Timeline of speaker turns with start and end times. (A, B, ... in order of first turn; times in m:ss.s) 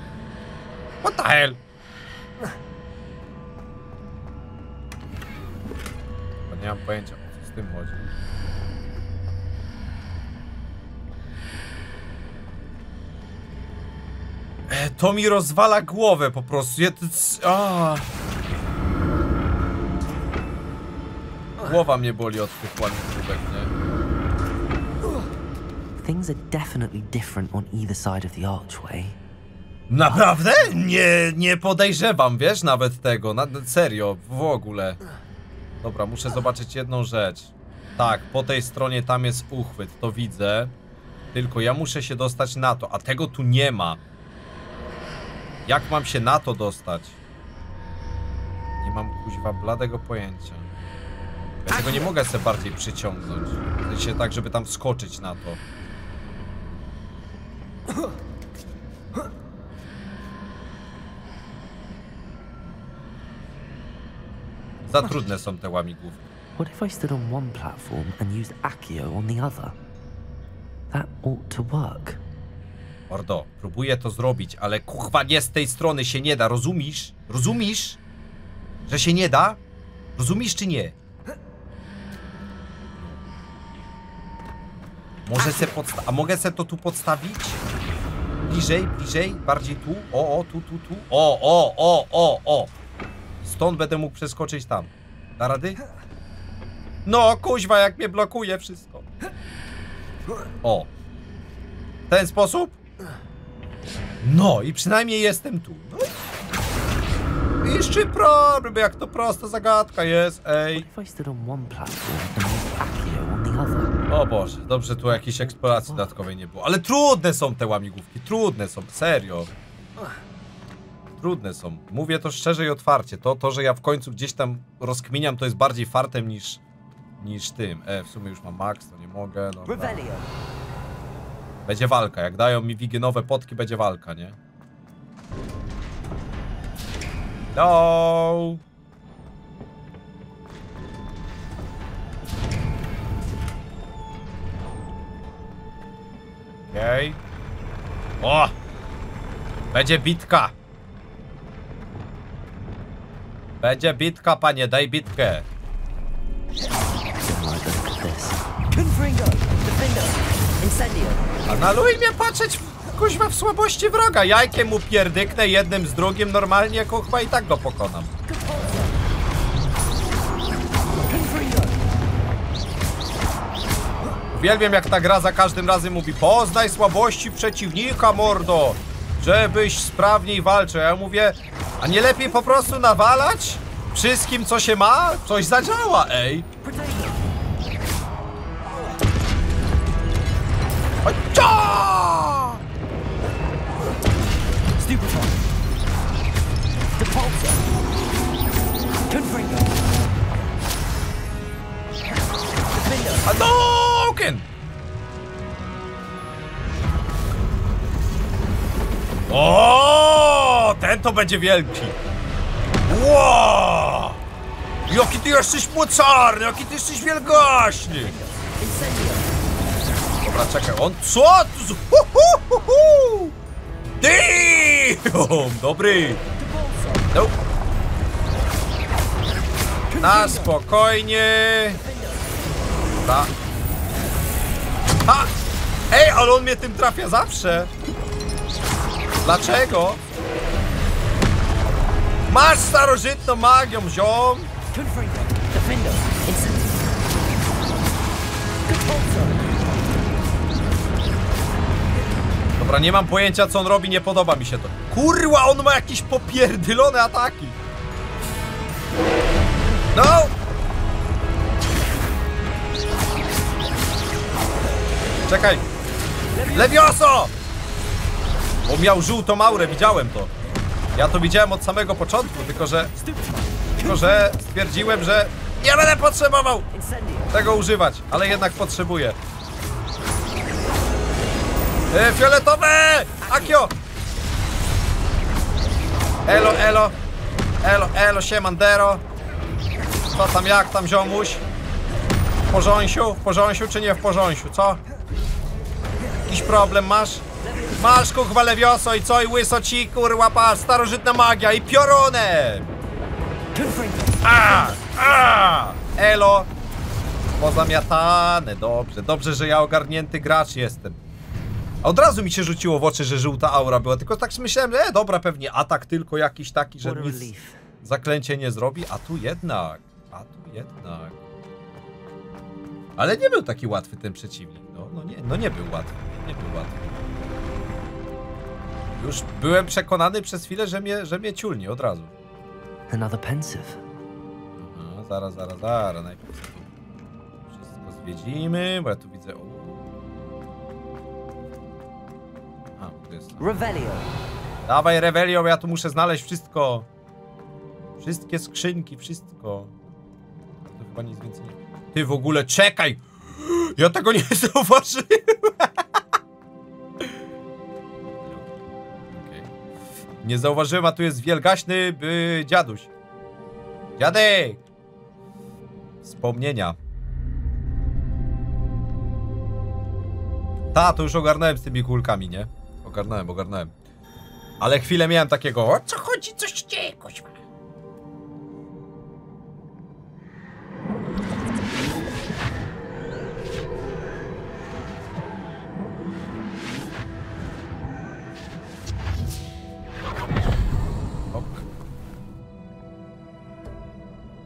0:01.0-0:01.6 A
0:06.5-0:08.1 A
0:14.7-0:18.1 A
0:21.6-0:23.7 A
0:26.0-0:29.2 B
0:29.9-0:35.0 A
0:35.8-0:40.7 A
0:41.3-0:44.0 A
0:45.7-0:47.2 A
0:48.8-0:50.7 A
0:51.7-0:55.6 A
1:04.9-1:06.2 A
1:06.6-1:09.8 B
1:10.9-1:12.2 B
1:13.1-1:18.0 A
1:18.9-1:19.6 A
1:20.2-1:21.0 A
1:25.3-1:27.6 A
1:28.4-1:32.7 A
1:33.4-1:35.8 A
1:37.1-1:39.1 A
1:40.6-1:40.9 A
1:42.1-1:42.8 A
1:44.2-1:46.1 A
1:47.6-1:50.9 A
1:50.7-1:54.0 B
1:54.1-1:59.5 A
1:55.1-1:56.2 B
2:01.2-2:06.6 A
2:07.2-2:10.0 A
2:09.7-2:10.3 B
2:11.7-2:14.4 A
2:17.5-2:18.6 A
2:26.7-2:27.2 A
2:28.2-2:28.5 A
2:29.7-2:30.6 A
2:33.6-2:35.5 A
2:37.2-2:41.2 B
2:41.5-2:48.1 A
2:48.3-2:48.9 B
2:51.1-2:51.7 B
2:54.3-3:06.5 A
3:06.6-3:07.2 B
3:11.0-3:12.6 A
3:14.8-3:15.3 B
3:17.0-3:17.6 B
3:19.1-3:19.7 B
3:22.8-3:23.2 B
3:23.2-3:24.4 A
3:29.3-3:32.0 A
3:32.9-3:34.2 A
3:34.9-3:38.1 A
3:37.5-3:39.2 B
3:40.2-3:43.3 A
3:44.0-3:46.2 A
3:46.4-3:47.0 B
3:50.0-3:51.8 A
3:53.0-3:53.3 A
3:55.1-3:55.3 A
3:55.9-3:57.7 A
3:59.2-4:00.0 A
4:02.3-4:04.5 A
4:04.8-4:06.9 B
4:08.7-4:09.4 B
4:12.6-4:17.6 A
4:19.9-4:20.3 A
4:25.3-4:25.7 A
4:26.4-4:27.3 A
4:28.7-4:30.3 A
4:31.0-4:32.9 A
4:33.8-4:36.7 A
4:36.8-4:37.3 B
4:37.3-4:39.2 A
4:41.9-4:43.7 A
4:43.3-4:43.6 B
4:46.3-4:47.0 A
4:47.6-4:49.0 A
4:50.1-4:51.4 A
4:52.5-4:54.8 A
4:56.3-4:57.2 A
4:57.5-4:57.8 B
4:57.8-5:02.7 A
5:03.6-5:04.2 B
5:04.2-5:06.5 A
5:07.4-5:11.0 A
5:11.8-5:17.3 A
5:16.8-5:17.6 B
5:17.8-5:21.2 A
5:23.0-5:26.9 A
5:29.0-5:32.1 A
5:32.9-5:33.8 B
5:34.6-5:36.7 A
5:37.5-5:39.9 A
5:42.8-5:43.4 A
5:43.4-5:44.1 B
5:44.7-5:46.9 A
5:48.0-5:49.7 A
5:50.6-5:55.7 A
5:59.1-5:59.5 A
6:00.2-6:02.9 A
6:04.0-6:04.6 A
6:06.0-6:06.8 A
6:10.7-6:13.7 A
6:14.6-6:17.4 A
6:31.3-6:31.6 A